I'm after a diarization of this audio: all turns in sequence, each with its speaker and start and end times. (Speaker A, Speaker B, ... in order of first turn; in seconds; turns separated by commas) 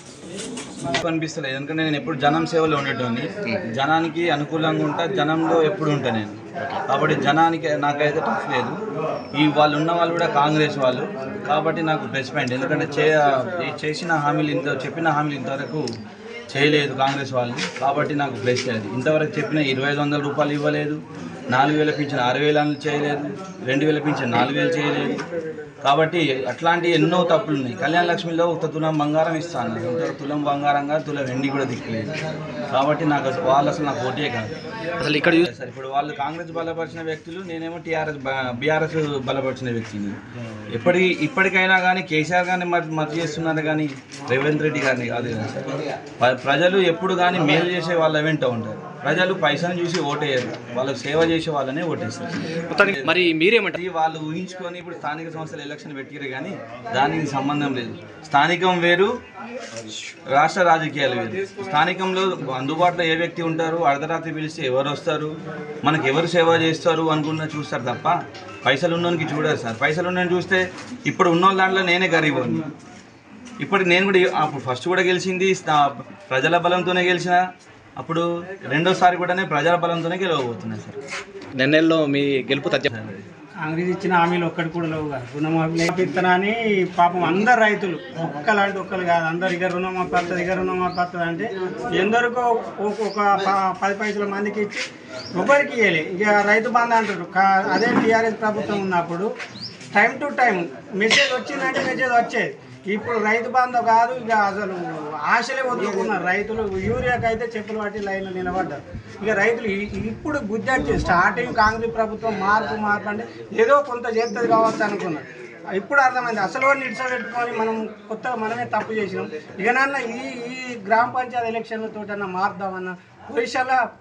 Speaker A: 0.8-6.4, Speaker A: 6.9-8.7, Speaker A: 9.3-15.8, Speaker A: 16.5-21.0, Speaker A: 21.5-25.2, Speaker A: 25.8-32.1, Speaker A: 32.7-34.5, Speaker B: 35.0-35.5, Speaker A: 35.4-40.2, Speaker A: 40.7-53.1, Speaker B: 52.7-53.8, Speaker A: 53.7-59.1, Speaker A: 60.3-72.7, Speaker A: 73.6-77.4, Speaker A: 78.0-81.0, Speaker B: 81.5-82.9, Speaker A: 82.9-83.2, Speaker C: 83.6-94.8, Speaker C: 95.4-99.3, Speaker C: 99.9-123.8